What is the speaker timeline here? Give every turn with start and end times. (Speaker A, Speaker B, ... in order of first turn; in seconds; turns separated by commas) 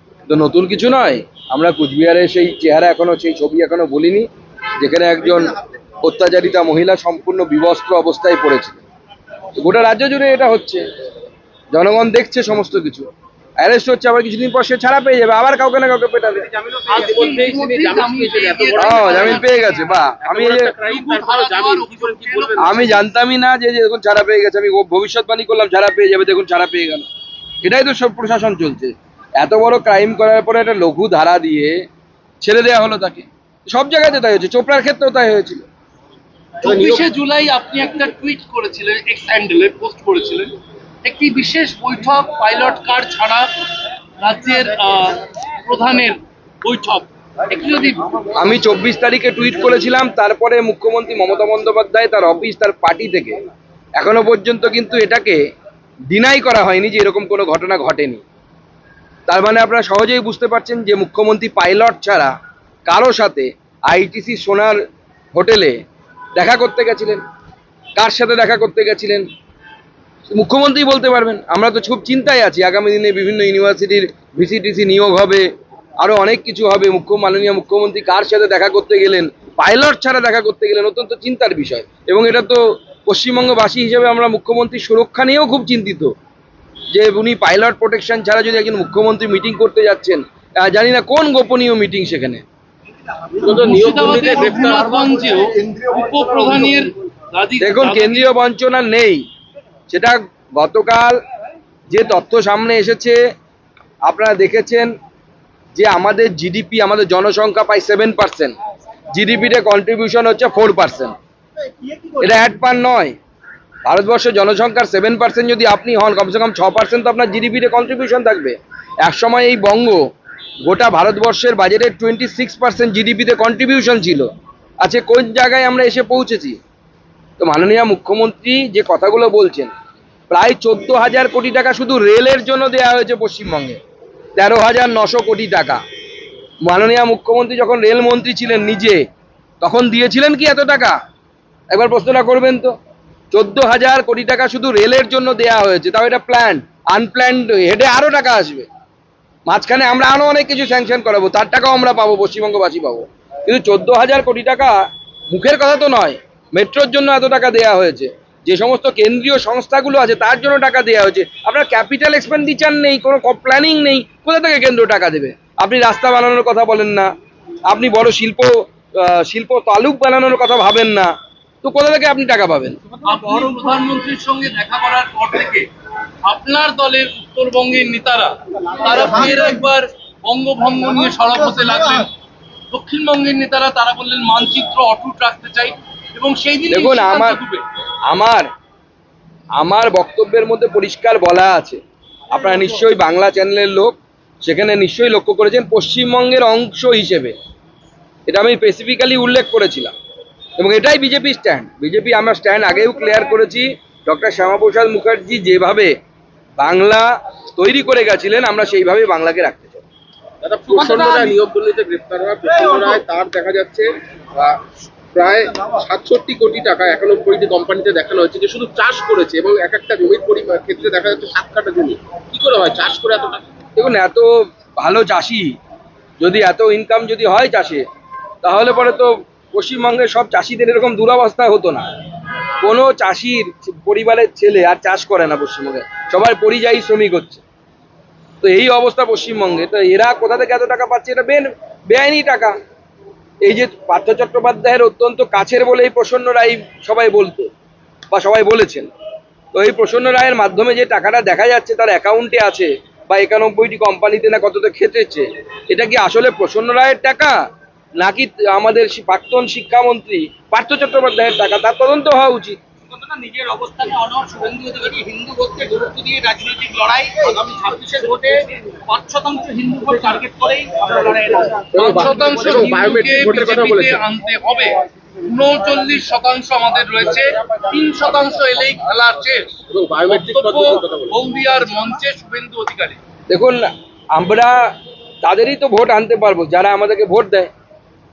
Speaker A: 0.3-4.3, Speaker A: 4.8-8.8, Speaker A: 9.6-10.8, Speaker A: 11.7-13.1, Speaker A: 13.6-16.5, Speaker B: 16.5-22.9, Speaker C: 16.9-19.7, Speaker A: 18.8-20.7, Speaker C: 20.8-22.8, Speaker A: 22.6-27.1, Speaker A: 27.6-31.8, Speaker A: 32.4-35.6, Speaker C: 36.6-43.5, Speaker B: 36.6-37.0, Speaker C: 44.2-48.2, Speaker A: 48.3-53.4, Speaker A: 54.0-55.4, Speaker A: 56.1-58.2, Speaker A: 59.3-62.3, Speaker A: 62.9-64.8, Speaker A: 65.3-65.8, Speaker A: 66.3-67.2, Speaker A: 68.0-69.2, Speaker A: 70.3-75.4, Speaker A: 76.0-86.1, Speaker A: 86.9-92.4, Speaker C: 93.4-98.3, Speaker B: 93.4-95.0, Speaker A: 97.6-99.2, Speaker A: 99.9-101.2, Speaker A: 101.9-103.2, Speaker A: 104.0-104.9, Speaker A: 105.7-108.5, Speaker A: 109.1-111.1, Speaker A: 112.2-113.1, Speaker A: 113.8-120.0, Speaker A: 120.6-124.3, Speaker A: 124.8-126.6, Speaker A: 127.4-129.7, Speaker A: 130.3-133.8, Speaker A: 134.3-135.8, Speaker A: 136.6-139.0, Speaker A: 139.6-140.9, Speaker A: 141.7-142.7, Speaker A: 143.3-148.7, Speaker A: 149.5-167.1, Speaker A: 167.7-171.1, Speaker A: 171.6-172.8, Speaker C: 173.0-175.7, Speaker C: 176.2-182.1, Speaker C: 182.7-187.6, Speaker A: 186.7-187.4, Speaker A: 188.1-188.4, Speaker A: 189.6-191.8, Speaker A: 192.3-197.3, Speaker A: 198.2-199.9, Speaker A: 200.6-205.9, Speaker A: 206.6-209.8, Speaker B: 210.4-214.6, Speaker C: 210.9-211.3, Speaker B: 215.1-223.4, Speaker A: 223.8-225.5, Speaker A: 226.2-227.8, Speaker A: 228.4-231.9, Speaker A: 232.6-237.4, Speaker A: 238.4-242.5, Speaker A: 243.4-247.5, Speaker A: 248.1-248.9, Speaker A: 249.5-257.4, Speaker A: 258.0-262.6, Speaker D: 262.9-271.7, Speaker C: 263.4-264.3, Speaker C: 266.3-268.3, Speaker C: 268.9-279.5, Speaker B: 271.6-274.0, Speaker D: 272.2-272.6, Speaker B: 279.7-281.2, Speaker C: 280.1-283.0, Speaker A: 283.3-287.5